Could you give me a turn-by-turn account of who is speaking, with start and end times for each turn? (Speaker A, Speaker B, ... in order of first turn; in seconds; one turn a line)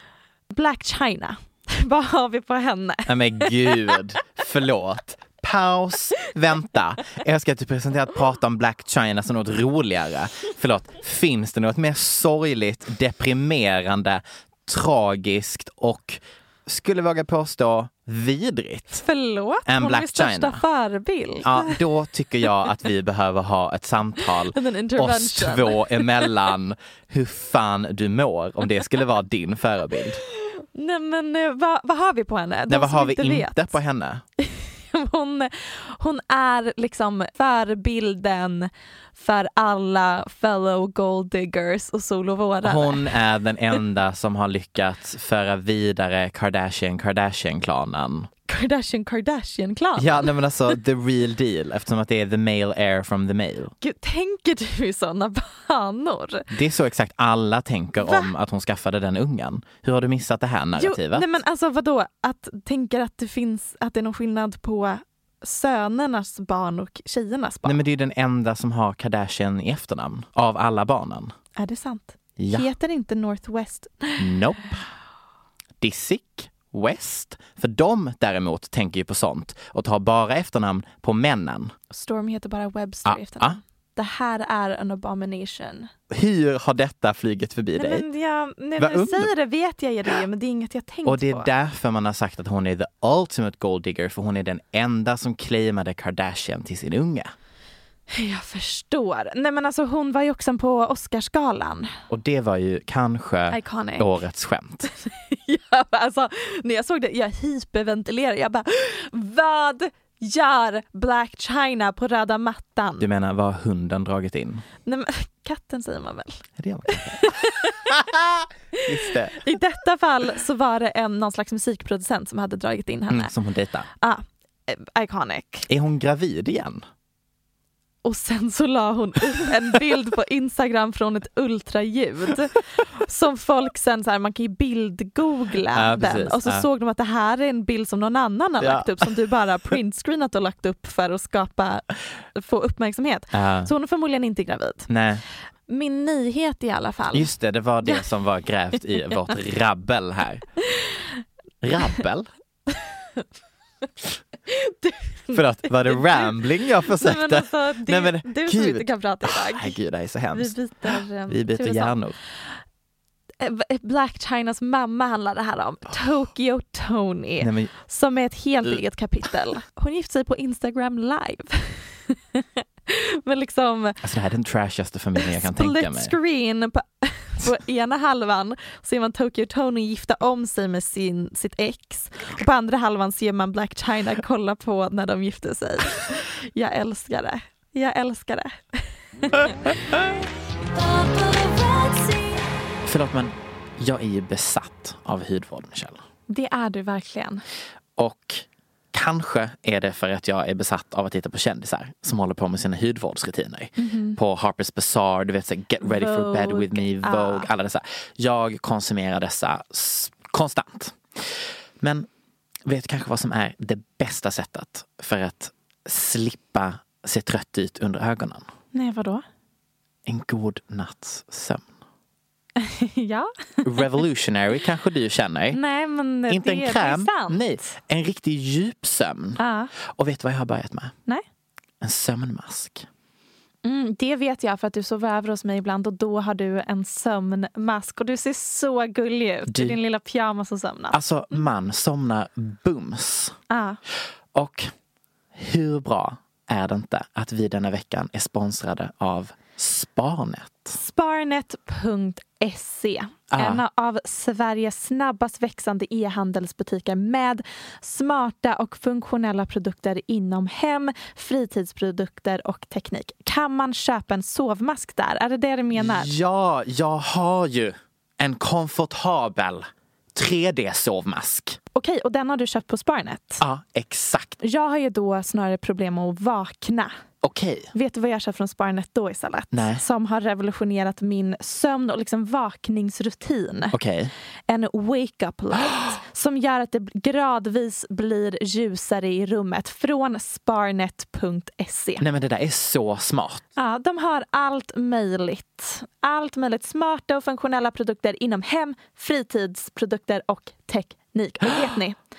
Speaker A: 0.5-4.0
Speaker B: 3.0-19.0
Speaker A: 18.9-21.8
Speaker B: 19.6-20.6
Speaker B: 21.4-30.2
Speaker A: 24.2-26.3
Speaker A: 30.4-33.8
Speaker B: 32.7-34.2
Speaker A: 34.4-43.1
Speaker B: 42.6-48.3
Speaker A: 48.5-50.3
Speaker B: 50.0-53.7
Speaker A: 53.8-56.5
Speaker B: 56.5-61.3
Speaker A: 58.0-58.3
Speaker A: 60.8-67.8
Speaker B: 67.6-71.3
Speaker A: 71.5-74.2
Speaker B: 72.4-72.7
Speaker B: 74.2-74.9
Speaker B: 75.8-81.7
Speaker A: 81.9-85.9
Speaker B: 83.0-83.6
Speaker B: 86.1-88.0
Speaker A: 87.8-91.5
Speaker B: 88.8-89.3
Speaker B: 91.0-97.3
Speaker A: 98.1-101.9
Speaker B: 102.1-104.9
Speaker A: 103.5-104.2
Speaker A: 104.9-113.1
Speaker B: 113.0-114.6
Speaker A: 114.8-117.9
Speaker B: 116.6-117.3
Speaker B: 117.9-119.4
Speaker A: 118.8-123.3
Speaker B: 123.1-123.9
Speaker A: 124.0-125.7
Speaker B: 125.7-126.8
Speaker A: 128.0-144.9
Speaker B: 135.7-136.7
Speaker B: 138.6-139.1
Speaker B: 143.3-143.7
Speaker B: 144.9-145.2
Speaker A: 145.7-147.3
Speaker B: 147.1-150.4
Speaker B: 151.6-152.3
Speaker A: 154.5-156.4
Speaker B: 155.3-162.2
Speaker A: 156.9-159.8
Speaker A: 160.3-162.0
Speaker A: 163.4-174.0
Speaker B: 167.4-167.7
Speaker B: 174.0-176.1
Speaker A: 175.2-190.0
Speaker A: 190.7-192.4
Speaker B: 192.8-196.0
Speaker A: 196.3-197.4
Speaker B: 198.0-212.1
Speaker A: 203.8-204.2
Speaker A: 205.8-207.5
Speaker B: 212.7-218.4
Speaker A: 218.7-219.2
Speaker B: 220.1-221.7
Speaker A: 222.6-223.8
Speaker B: 223.6-225.6
Speaker A: 225.5-227.4
Speaker B: 226.3-230.9
Speaker A: 229.4-229.7
Speaker B: 231.8-232.9
Speaker A: 233.6-241.4
Speaker B: 239.5-239.8
Speaker B: 240.9-243.3
Speaker A: 243.5-243.8
Speaker B: 244.3-244.7
Speaker B: 245.3-250.8
Speaker A: 250.7-266.1
Speaker B: 253.3-253.6
Speaker B: 265.7-271.6
Speaker A: 271.7-273.4
Speaker B: 273.4-274.4
Speaker A: 274.4-276.9
Speaker B: 277.2-277.7
Speaker A: 277.7-283.8
Speaker B: 279.5-279.8
Speaker B: 283.7-284.1
Speaker A: 284.5-292.0
Speaker B: 292.0-293.4
Speaker A: 293.6-302.0